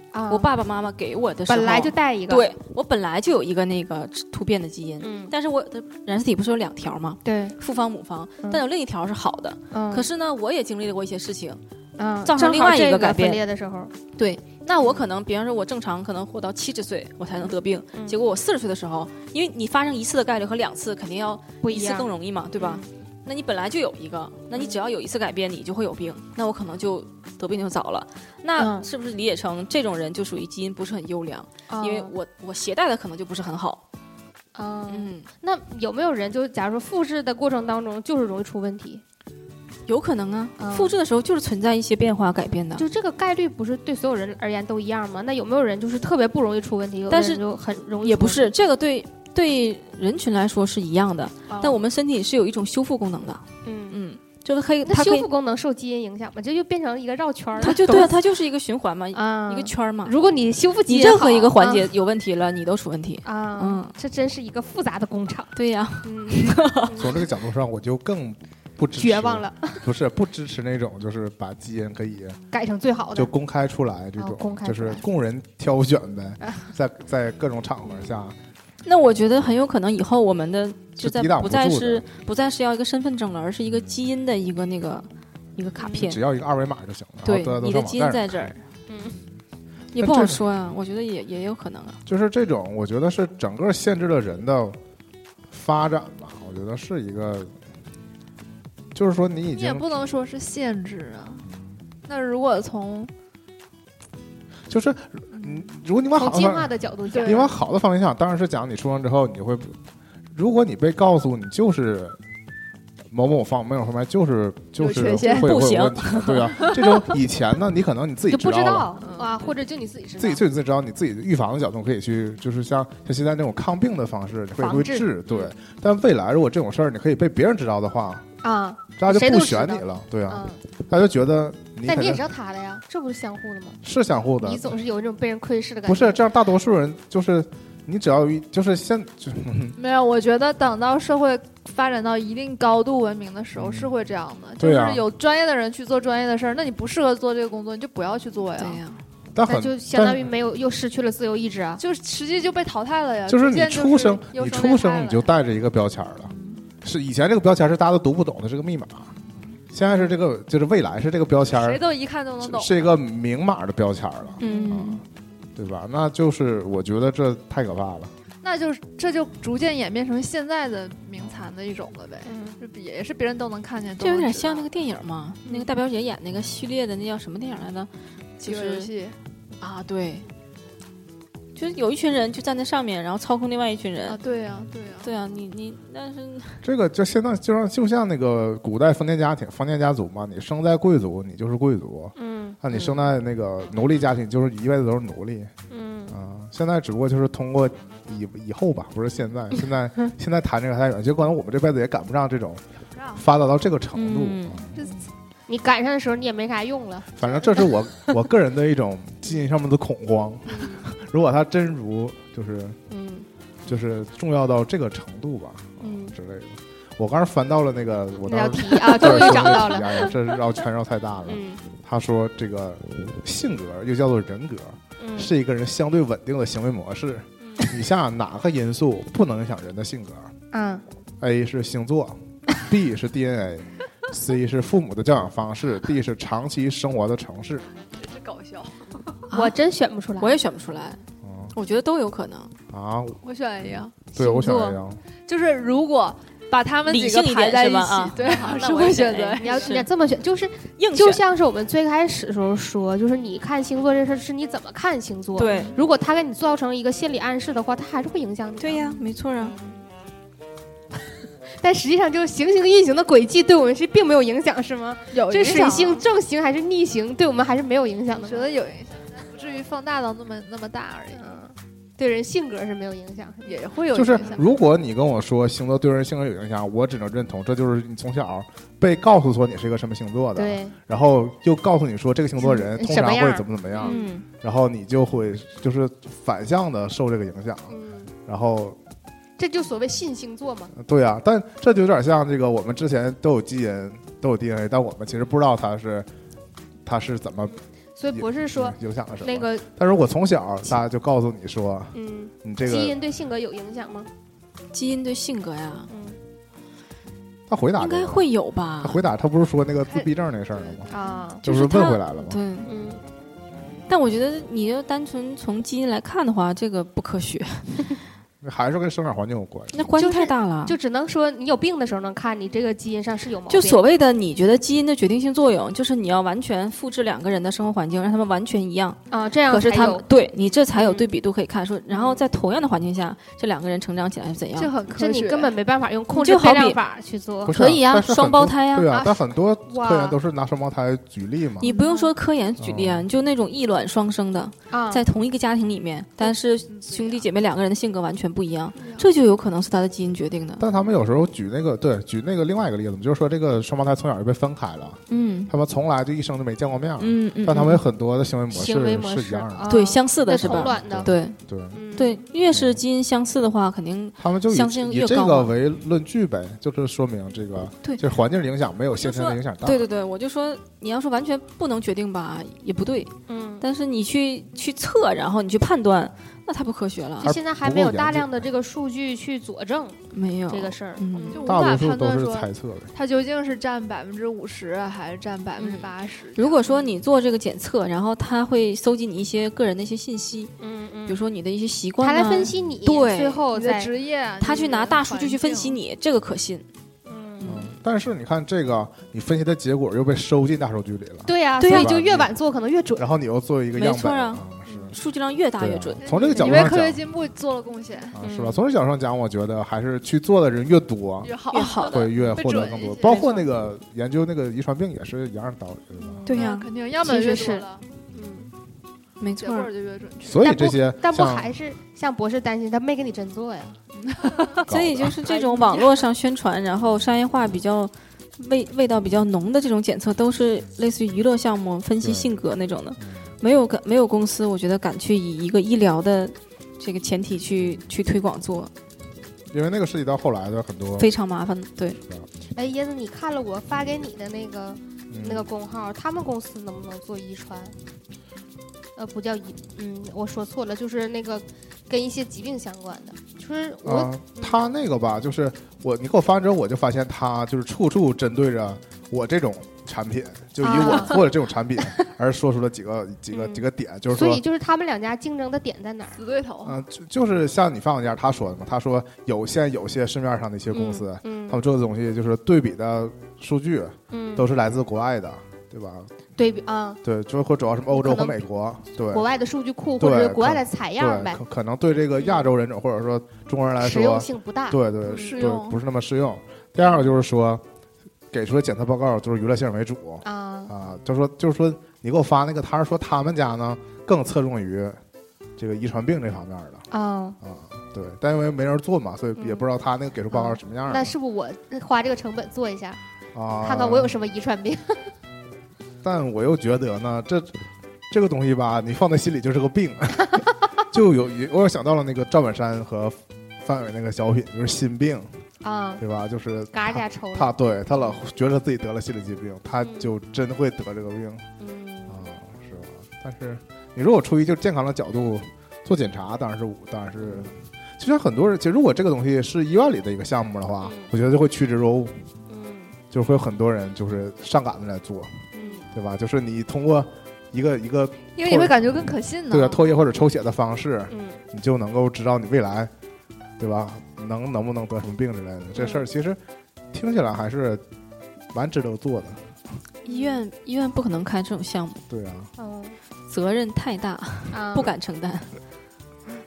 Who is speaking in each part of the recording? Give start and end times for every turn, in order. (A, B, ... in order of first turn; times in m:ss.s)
0:00.1-0:00.5 A
0:00.3-0:11.6 B
0:01.5-0:02.5 A
0:05.0-0:05.3 A
0:07.2-0:07.6 A
0:09.7-0:10.1 A
0:12.0-0:13.9 A
0:12.2-0:13.4 B
0:14.2-0:33.8 B
0:14.8-0:15.1 A
0:17.4-0:18.2 A
0:21.6-0:22.9 A
0:24.5-0:24.8 A
0:28.6-0:28.8 A
0:31.7-0:32.1 A
0:34.6-0:39.0 A
0:34.9-0:35.3 B
0:39.9-0:42.8 B
0:40.6-0:41.0 A
0:42.8-0:48.5 A
0:47.1-0:47.4 B
0:48.0-0:55.3 B
0:51.5-0:51.8 A
0:53.6-0:54.0 A
0:54.9-0:58.2 A
0:57.6-1:00.2 B
0:59.1-1:01.9 A
1:00.9-1:03.9 B
1:03.2-1:07.3 A
1:05.5-1:07.0 B
1:07.0-1:12.4 C
1:09.0-1:09.8 A
1:12.5-1:13.3 A
1:13.2-1:18.4 C
1:14.2-1:15.0 A
1:16.4-1:16.7 A
1:18.8-1:26.2 B
1:21.0-1:22.0 C
1:26.0-1:28.5 C
1:27.2-1:28.6 B
1:28.9-1:29.2 A
1:29.9-1:32.0 B
1:30.0-1:30.4 C
1:32.1-1:34.8 C
1:35.5-1:37.5 C
1:38.9-1:40.0 C
1:39.5-1:41.5 D
1:41.5-1:41.8 C
1:42.1-1:43.1 D
1:44.7-1:46.7 C
1:45.3-1:45.6 D
1:46.2-1:47.6 A
1:47.1-1:47.5 D
1:47.2-1:49.8 C
1:50.3-1:52.2 C
1:53.1-1:58.9 C
1:54.8-1:55.5 D
1:55.2-1:56.8 B
1:56.6-1:57.0 D
1:58.3-2:00.4 A
1:59.0-1:59.3 D
2:00.2-2:08.2 C
2:04.6-2:05.5 A
2:08.4-2:10.6 A
2:09.0-2:12.2 C
2:11.8-2:13.8 A
2:13.8-2:14.8 C
2:14.4-2:16.2 A
2:15.9-2:19.8 C
2:19.8-2:28.8 D
2:23.6-2:23.9 C
2:24.6-2:25.1 C
2:28.6-2:29.0 B
2:29.3-2:30.3 C
2:29.4-2:31.8 A
2:31.8-2:35.3 D
2:33.3-2:39.2 C
2:36.3-2:36.6 D
2:39.7-2:41.8 C
2:41.5-2:43.0 D
2:42.4-2:45.0 C
2:44.4-2:45.0 B
2:45.6-2:48.1 C
2:48.4-2:54.7 D
2:52.2-2:52.6 A
2:54.0-2:58.9 B
2:58.4-2:59.2 D
2:59.6-3:00.3 B
3:01.6-3:04.2 B
3:04.1-3:05.1 D
3:05.0-3:06.6 B
3:06.6-3:15.5 C
3:12.2-3:13.0 A
3:15.7-3:16.2 A
3:16.1-3:24.8 C
3:24.0-3:24.7 B
3:25.5-3:27.7 A
3:27.2-3:32.8 C
3:30.5-3:30.9 A
3:32.9-3:33.3 A
3:33.7-3:50.3 C
3:35.8-3:36.1 A
3:38.3-3:40.2 A
3:41.3-3:41.6 A
3:45.0-3:45.3 A
3:47.4-3:47.7 A
3:50.5-3:50.8 A
3:51.2-3:57.7 C
3:57.9-3:59.2 D
3:59.3-4:00.4 A
4:00.2-4:01.0 B
4:01.2-4:01.6 C
4:01.5-4:02.5 B
4:02.7-4:03.2 C
4:03.2-4:04.0 D
4:04.1-4:04.8 A
4:04.2-4:05.0 C
4:05.3-4:09.8 D
4:06.9-4:09.9 B
4:09.4-4:18.9 A
4:10.8-4:11.2 B
4:15.4-4:15.8 B
4:18.6-4:19.6 B
4:19.4-4:19.8 A
4:21.6-4:28.5 A
4:25.1-4:26.0 D
4:28.1-4:31.4 D
4:31.1-4:34.3 A
4:33.4-4:34.6 D
4:33.9-4:47.8 C
4:40.4-4:40.8 A
4:42.4-4:44.0 A
4:43.8-4:44.3 B
4:47.7-4:48.1 A
4:48.3-4:48.8 C
4:49.4-4:50.7 A
4:50.7-4:56.1 C
4:56.8-4:57.6 C
4:58.0-4:59.6 A
4:58.1-5:03.0 C
5:01.9-5:04.1 A
5:04.7-5:05.9 B
5:05.9-5:06.2 A
5:07.5-5:08.3 C
5:07.8-5:09.0 B
5:08.8-5:10.9 C
5:09.9-5:11.2 D
5:10.9-5:11.4 A
5:11.4-5:12.4 C
5:11.4-5:12.7 B
5:12.6-5:13.0 A
5:13.9-5:17.8 B
5:18.4-5:19.9 C
5:19.7-5:20.8 B
5:20.0-5:23.8 A
5:23.5-5:34.7 B
5:29.1-5:30.0 A
5:30.8-5:31.1 A
5:31.9-5:32.2 A
5:34.6-5:35.5 D
5:34.9-5:37.6 A
5:36.1-5:36.8 B
5:37.4-5:41.7 C
5:37.5-5:39.0 B
5:39.7-5:40.2 A
5:41.6-5:50.6 B
5:41.6-5:42.1 A
5:42.6-5:43.1 C
5:44.7-5:45.0 A
5:46.7-5:47.2 D
5:48.8-5:49.1 D
5:50.6-5:59.7 C
5:55.1-5:55.5 B
5:57.0-5:57.8 B
5:58.5-6:01.2 A
5:59.7-6:01.4 B
6:00.4-6:01.8 C
6:01.7-6:02.2 A
6:02.0-6:05.5 B
6:02.5-6:02.8 C
6:04.2-6:09.9 C
6:09.0-6:17.3 B
6:13.3-6:13.6 A
6:17.2-6:18.5 C
6:17.2-6:21.5 A
6:20.1-6:21.4 B
6:21.3-6:26.6 D
6:21.4-6:22.9 C
6:25.6-6:30.5 B
6:30.6-6:31.2 A
6:31.1-6:33.4 B
6:32.0-6:33.9 A
6:33.5-6:35.8 D
6:34.4-6:36.6 B
6:37.1-6:37.7 A
6:37.4-6:42.3 C
6:41.3-6:43.0 A
6:41.6-6:41.9 B
6:43.0-6:45.0 C
6:43.8-6:46.7 B
6:44.7-6:44.9 A
6:45.6-6:47.0 C
6:46.0-6:48.2 D
6:48.1-6:51.3 C
6:48.2-6:48.6 A
6:51.2-6:53.5 D
6:51.5-6:52.1 B
6:51.8-6:56.2 C
6:53.0-6:53.3 B
6:56.0-6:56.5 A
6:56.3-6:56.7 B
6:56.3-6:57.8 D
6:57.0-6:58.5 A
6:59.2-6:59.7 B
6:59.4-7:00.6 D
7:00.2-7:01.5 C
7:00.4-7:03.8 A
7:04.1-7:04.6 D
7:04.6-7:18.7 B
7:04.7-7:05.2 C
7:05.3-7:06.0 D
7:12.0-7:12.3 C
7:13.0-7:13.3 C
7:19.5-7:21.1 C
7:21.0-7:22.0 B
7:22.0-7:22.3 C
7:22.6-7:27.7 A
7:25.1-7:25.5 C
7:29.0-7:34.6 A
7:33.8-7:44.4 C
7:40.6-7:41.3 A
7:43.3-7:46.2 A
7:46.2-7:46.8 D
7:46.6-7:56.1 C
7:50.7-7:51.6 A
7:54.1-7:54.5 A
7:56.4-7:57.0 A
7:57.0-7:59.3 C
7:57.9-7:58.4 A
7:59.1-8:01.4 A
8:00.0-8:07.6 C
8:02.2-8:02.5 A
8:03.8-8:05.4 A
8:05.1-8:05.8 D
8:08.3-8:15.0 C
8:10.2-8:10.7 A
8:15.6-8:16.8 C
8:16.9-8:17.4 A
8:17.4-8:21.1 C
8:19.4-8:19.6 A
8:20.3-8:23.0 A
8:23.3-8:24.2 C
8:23.6-8:25.1 A
8:26.0-8:27.5 C
8:28.1-8:35.3 C
8:35.6-8:36.0 A
8:36.0-8:41.4 C
8:36.7-8:37.6 A
8:39.8-8:40.1 A
8:41.6-8:42.3 A
8:42.1-8:52.2 C
8:50.8-8:51.1 A
8:52.5-8:53.0 A
8:53.1-9:02.9 C
8:55.5-8:55.9 A
8:58.4-8:59.9 D
9:01.1-9:01.4 A
9:03.6-9:06.4 C
9:05.8-9:06.1 A
9:06.9-9:07.8 C
9:08.5-9:09.5 C
9:10.0-9:10.4 A
9:10.1-9:12.0 B
9:12.1-9:12.5 C
9:12.6-9:13.0 A
9:13.3-9:15.5 B
9:14.5-9:15.0 A